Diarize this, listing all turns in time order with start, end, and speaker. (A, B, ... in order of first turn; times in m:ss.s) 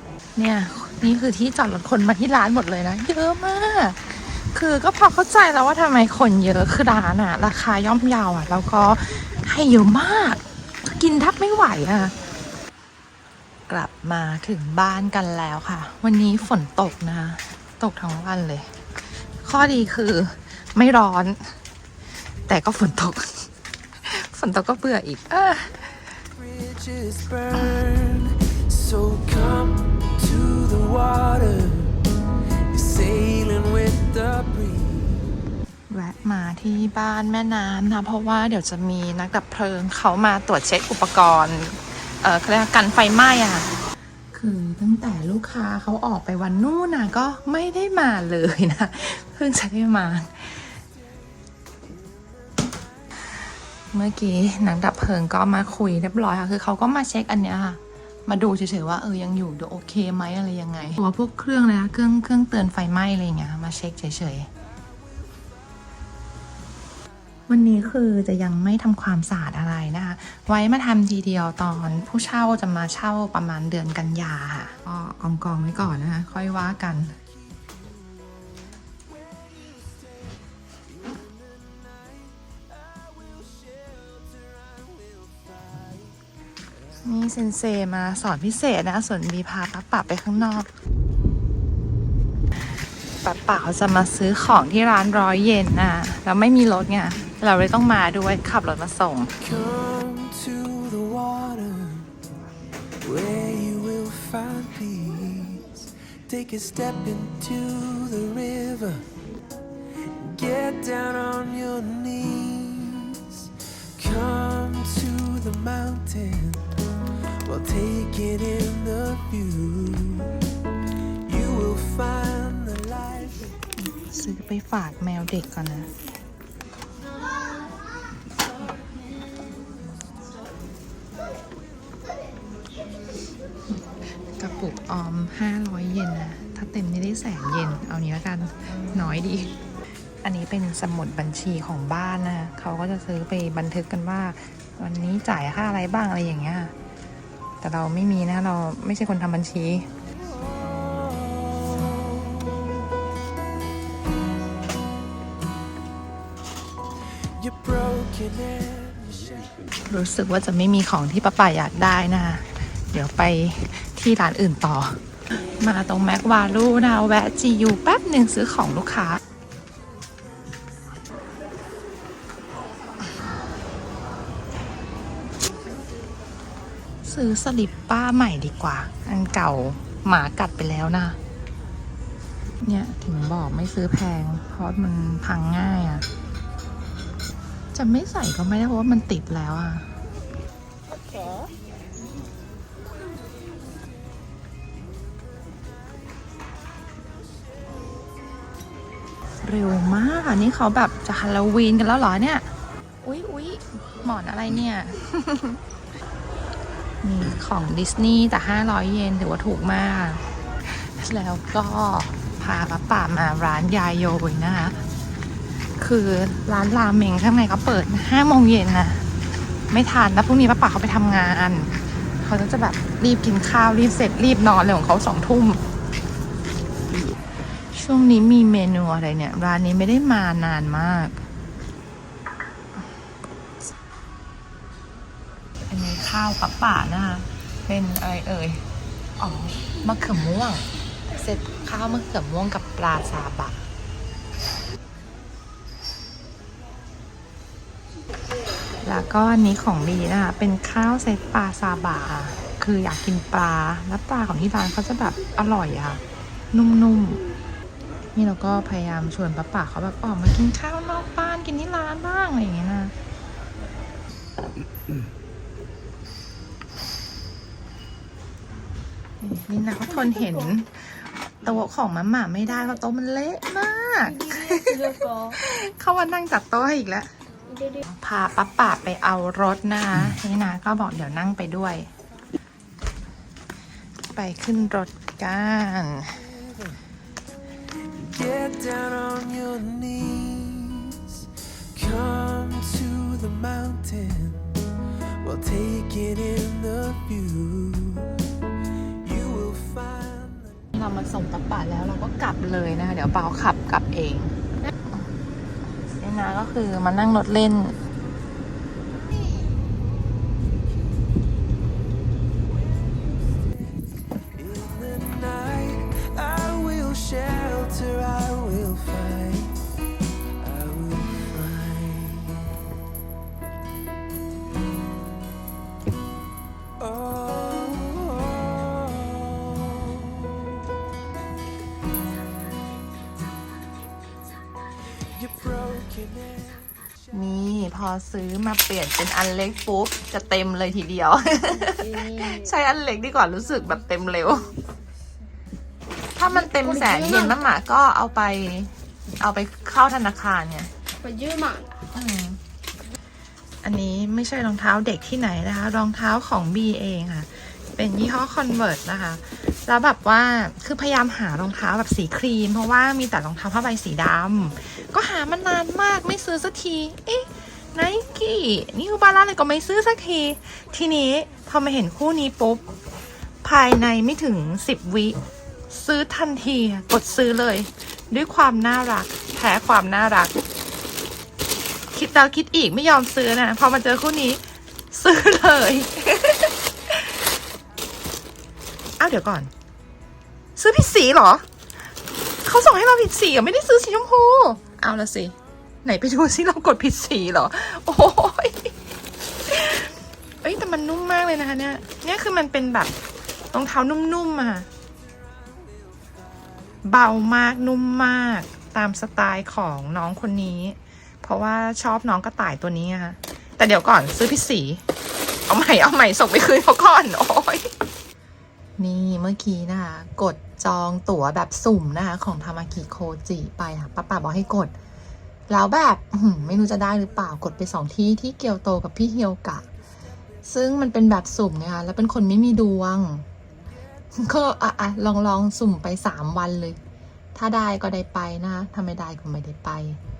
0:00.4-0:12.1 A
0:13.7-0:18.7 A
0:19.4-0:21.5 A
0:22.5-0:23.5 A
0:24.0-0:26.2 A
0:26.4-0:32.0 B
0:32.7-0:35.3 B
0:35.9-0:43.7 A
0:44.3-0:50.8 A
0:53.9-1:04.5 A
1:07.5-1:17.2 A
1:22.8-1:26.0 B
1:27.0-1:30.7 A
1:33.2-1:39.3 A
1:39.4-1:42.1 B
1:43.0-1:49.1 B
1:50.1-1:56.8 B
1:57.4-2:00.4 B
2:01.2-2:03.5 B
2:03.8-2:05.9 A
2:14.2-2:19.5 A
2:20.2-2:26.7 A
2:27.6-2:29.9 A
2:30.5-2:32.6 B
2:37.4-2:39.6 B
2:39.9-2:49.2 A
2:57.0-3:01.2 A
3:02.6-3:06.0 A
3:07.7-3:09.9 A
3:10.9-3:11.5 C
3:19.4-3:22.5 A
3:23.0-3:25.6 A
3:27.0-3:34.8 A
3:35.8-3:39.0 A
3:39.7-3:45.6 A
3:47.7-3:51.2 A
3:55.7-3:58.6 A
3:59.2-4:03.6 A
4:08.8-4:17.2 A
4:18.1-4:22.9 A
4:29.2-4:37.1 A
4:34.2-4:35.4 C
4:37.5-4:37.8 C
4:37.8-4:41.9 A
4:44.1-4:46.2 A
4:46.4-4:46.8 B
4:48.0-4:54.6 B
4:55.2-4:58.4 B
4:58.9-5:00.7 B
5:00.7-5:04.4 A
5:06.0-5:07.8 A
5:14.1-5:19.6 B
5:20.4-5:22.6 B
5:26.8-5:30.2 B
5:35.0-5:36.7 B
5:37.1-5:44.5 A
5:41.6-5:42.5 C
5:46.2-5:50.7 A
5:46.5-5:47.4 C
5:51.0-5:51.7 C
5:51.9-5:52.4 A
5:53.6-6:12.6 A
6:13.4-6:15.2 A
6:15.7-6:20.3 A
6:21.9-6:24.4 A
6:24.9-6:27.2 A
6:29.0-6:29.5 A
6:30.6-6:31.4 A
6:32.4-6:38.7 A
6:39.5-6:39.9 A
6:40.4-6:42.9 A
6:43.5-6:44.7 A
6:46.9-6:54.8 A
6:55.5-6:57.7 A
6:58.8-7:04.7 A
7:05.5-7:09.7 A
7:10.4-7:13.2 A
7:14.2-7:16.8 A
7:17.3-7:20.0 A